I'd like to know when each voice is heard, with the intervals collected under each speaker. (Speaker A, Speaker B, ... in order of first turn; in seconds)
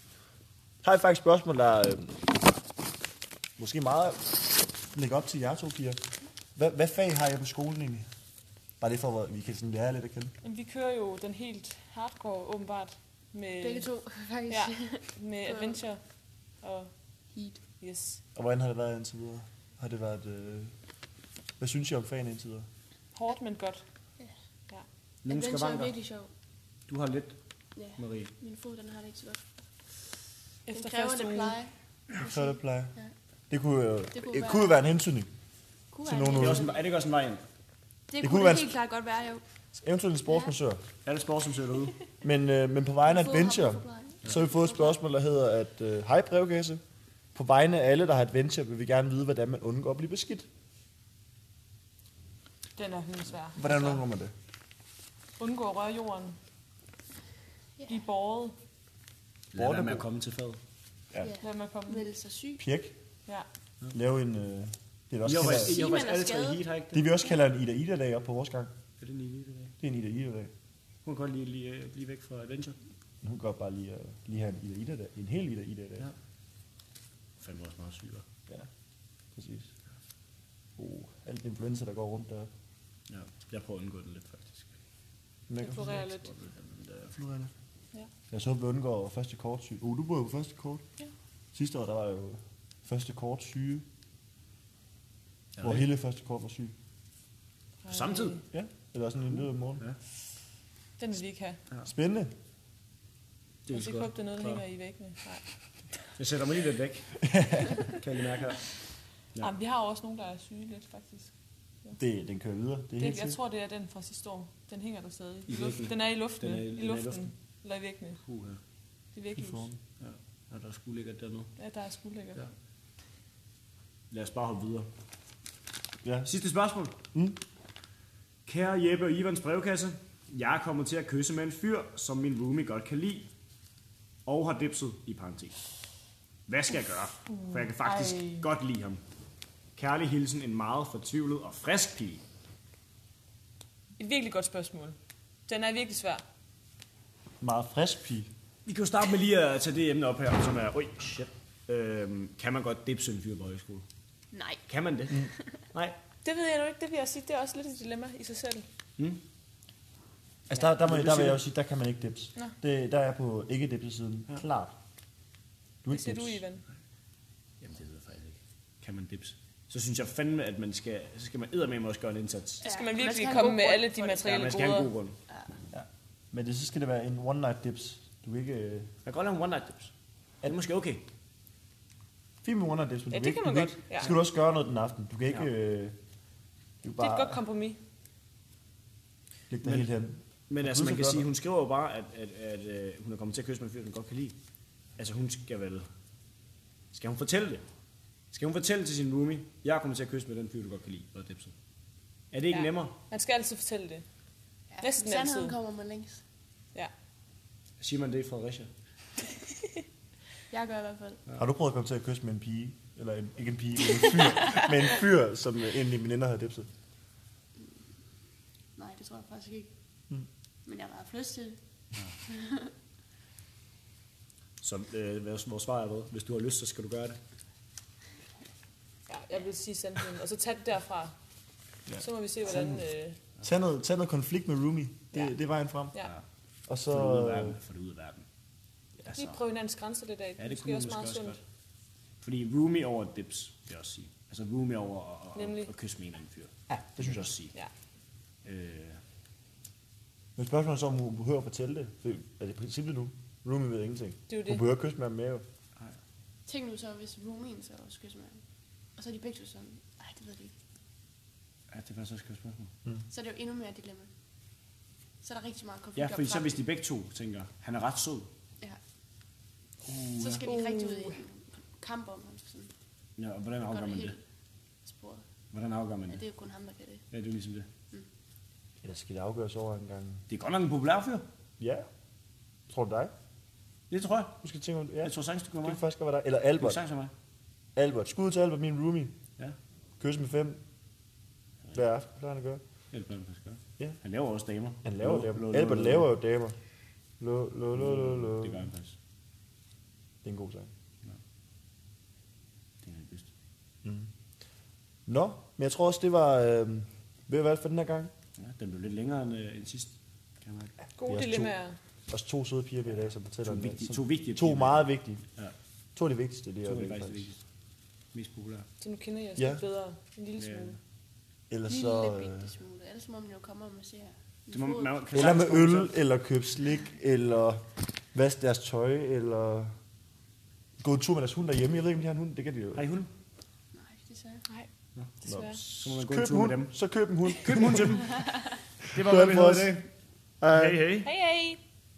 Speaker A: 0.8-2.2, 3.6-6.0, 6.5-8.1, 8.8-10.3, 18.4-20.7, 21.6-22.7, 32.2-32.9, 33.5-35.3, 36.0-36.6, 38.2-38.7, 39.8-40.8, 42.2-46.8, 47.4-50.5, 53.5-54.3, 59.6-60.0, 62.6-63.0, 63.9-65.8, 66.9-68.7, 69.8-70.5, 73.2-76.1, 79.3-79.7, 80.8-82.5, 85.5-86.1, 87.1-87.5, 88.3-90.8, 91.5-93.8, 95.6-96.7, 98.5-99.8, 101.8-102.3, 107.3-107.8, 112.0-113.4, 119.4-119.7, 126.0-126.3, 127.1-127.4, 147.4-148.3, 160.5-164.7, 165.8-166.4, 175.7-178.9, 182.4-186.0, 186.8-187.4, 189.5-191.3, 211.4-216.7, 233.4-236.0, 236.7-237.6, 246.7-247.3, 250.4-255.4, 278.8-280.2, 281.6-281.9, 282.7-283.1, 284.4-286.8, 287.8-289.1, 290.0-290.6, 291.7-292.6, 294.9-296.6, 297.2-298.7, 300.2-300.7, 305.1-308.1, 311.1-311.5, 312.1-315.2, 316.0-317.3, 319.4-319.6, 321.5-322.5, 325.1-327.6, 328.1-329.8, 330.8-332.8, 335.3-338.1, 338.9-339.8, 340.4-340.8
Speaker B: 10.4-13.9, 14.5-16.0, 16.6-16.9, 17.8-18.2, 23.1-23.8, 30.7-31.6, 52.8-54.0, 55.4-56.4, 57.9-58.6, 61.4-62.1, 85.6-86.3, 97.8-98.4, 101.0-101.6, 103.7-106.1, 109.4-111.3, 113.0-118.2, 119.1-119.7, 121.6-122.5, 137.3-138.5, 144.0-146.2, 156.2-158.7, 165.9-166.6, 172.6-174.9, 183.1-184.1, 187.0-187.8, 202.5-204.1, 204.8-205.6, 229.1-231.2, 232.0-233.2, 239.1-241.4, 245.4-245.7, 254.3-254.6, 270.4-271.2, 311.0-311.8, 318.8-320.8, 335.2-335.6, 341.0-341.6
Speaker C: 13.6-15.8, 17.3-17.6, 25.3-26.3, 27.8-29.4, 30.7-33.1, 34.1-34.9, 35.9-36.9, 38.1-39.4, 43.0-45.0, 61.2-62.6, 65.4-66.7, 154.3-155.3, 172.6-174.7, 175.3-175.6, 204.7-206.2, 210.5-211.2, 218.8-219.7, 220.7-221.6, 222.3-222.7, 256.5-258.4, 259.0-260.5, 263.1-264.1, 265.2-266.6, 270.2-272.7, 273.7-274.2, 274.9-275.2, 276.1-277.0, 321.7-325.0, 333.7-334.5
Speaker D: 25.2-26.0, 26.9-27.4, 27.9-28.3, 36.3-37.4, 41.0-42.0, 59.5-60.6, 65.2-67.1, 69.0-69.7, 71.0-72.8, 77.4-78.2, 83.1-84.7, 85.9-87.2, 95.6-95.9, 97.9-98.4, 103.7-104.7, 106.2-107.3, 107.8-108.7, 115.5-117.3, 118.2-118.6, 120.0-121.5, 124.1-124.9, 126.3-127.0, 128.5-133.3, 134.3-135.6, 136.5-139.0, 139.8-142.2, 148.7-153.8, 154.7-156.0, 160.8-161.4, 167.6-172.7, 174.2-175.2, 179.1-179.9, 180.4-181.1, 189.6-189.9, 190.5-194.3, 195.0-195.9, 196.9-197.6, 198.3-201.5, 202.3-202.9, 207.8-208.7, 224.6-227.2, 232.4-232.9, 236.0-236.2, 236.9-238.2, 239.0-239.4, 240.4-241.4, 242.2-247.5, 248.4-249.0, 261.7-262.7, 265.9-268.3, 269.8-270.4, 273.2-274.2, 275.5-276.2, 277.1-277.7, 280.3-281.3, 283.9-284.4, 285.0-285.8, 286.6-287.1, 292.9-296.1, 297.7-298.9, 302.8-303.3, 308.4-310.7, 312.9-315.5, 316.6-317.4, 318.1-318.7, 320.4-320.8, 324.5-326.0, 332.8-333.1, 335.7-336.7, 337.4-339.9, 340.5-341.1